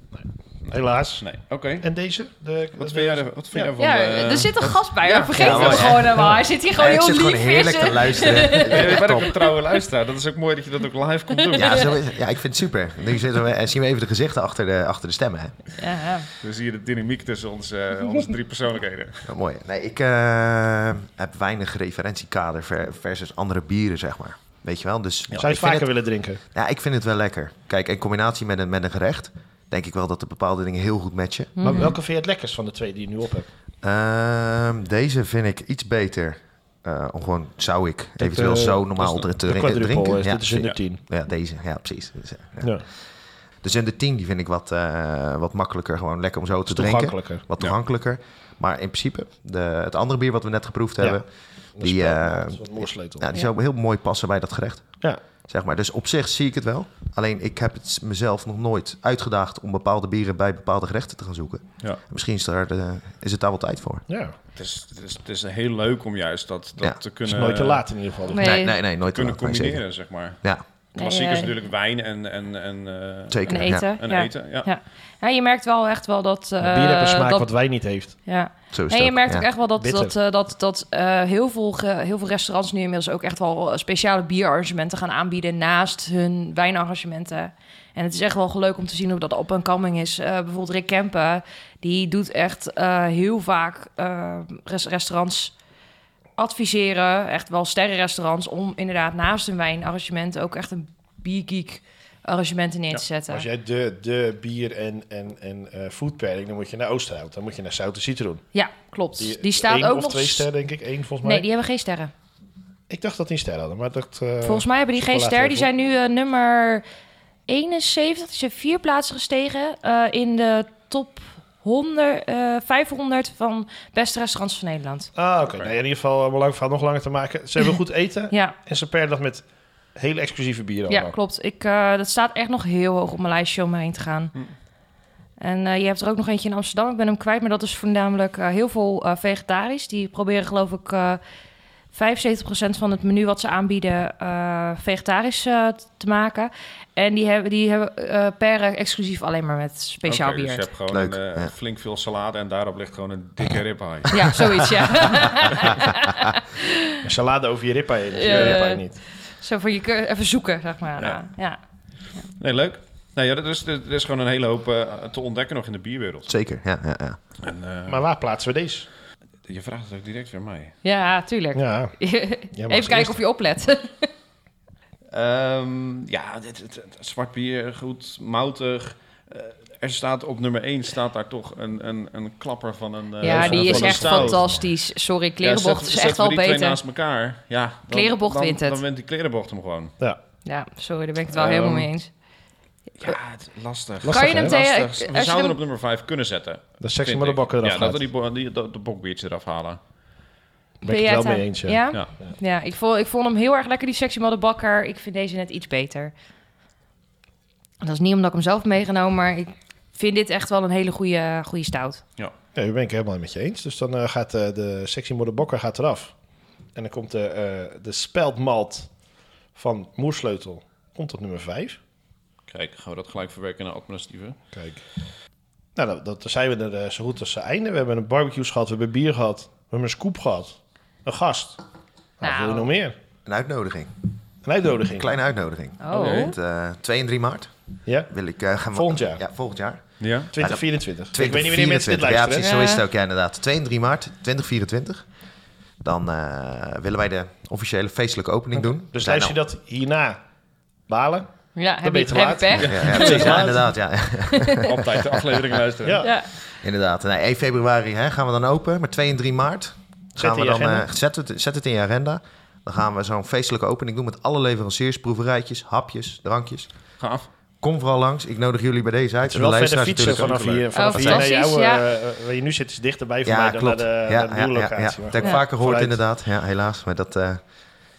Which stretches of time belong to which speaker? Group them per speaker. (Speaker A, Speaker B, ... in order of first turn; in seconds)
Speaker A: 0.2-1.2, 1.8-3.7, 25.4-26.4, 31.6-33.5, 38.2-41.0, 42.6-42.9, 46.7-47.4, 51.0-53.3, 64.1-64.3, 67.2-68.5, 76.6-78.2, 79.8-80.1, 103.3-108.4, 109.2-111.5, 112.9-115.7, 125.1-131.2, 157.0-159.0, 167.9-168.9, 171.6-171.9, 172.5-173.1, 183.2-184.6, 194.0-194.6, 196.8-198.0, 200.8-202.3, 212.6-216.1, 216.8-218.9, 219.6-221.8, 224.5-224.8, 225.8-231.6, 232.2-233.0, 234.4-235.2, 237.9-238.1, 238.7-239.2, 240.3-242.5, 248.9-250.2, 250.9-253.7, 255.8-256.1, 260.2-260.9, 269.3-276.0
Speaker B: 0.6-1.9, 2.8-6.1, 8.6-11.9, 16.4-19.3, 64.6-67.8, 69.0-70.4, 70.9-74.7, 125.4-125.7, 150.1-155.8, 158.3-158.6, 162.4-166.3, 167.4-168.0, 169.5-170.8, 175.1-184.4, 185.4-189.9, 191.3-191.9, 193.0-199.8, 222.5-224.4, 235.9-236.3, 240.0-240.3, 252.6-253.3, 254.6-256.1, 267.0-267.3, 270.0-271.3
Speaker C: 3.8-9.4, 11.4-11.9, 15.8-16.3, 31.6-32.0, 68.3-68.8, 71.0-71.5, 73.5-77.5, 78.3-95.5, 96.4-103.5, 108.5-110.5, 111.2-112.1, 114.4-116.8, 117.5-125.1, 128.3-128.6, 130.9-134.3, 135.4-141.2, 141.9-150.7, 154.1-157.0, 158.1-161.6, 170.8-174.1, 183.2-186.8, 187.9-188.8, 190.4-192.1, 194.1-195.6, 200.8-206.1, 207.8-212.0, 232.2-232.7, 235.8-236.3, 242.4-242.8, 251.6-253.5, 254.3-254.7, 256.0-256.3, 270.7-271.9, 275.2-275.4
Speaker D: 5.3-9.4, 11.5-15.6, 19.3-25.9, 26.4-31.7, 33.8-43.0, 43.6-64.0, 68.4-69.8, 73.3-73.9, 78.7-79.5, 150.9-151.5, 166.3-167.2, 233.3-233.9, 235.0-237.5, 238.1-245.1, 245.8-249.4, 252.6-255.2, 256.6-266.7, 267.6-270.6, 273.2-277.4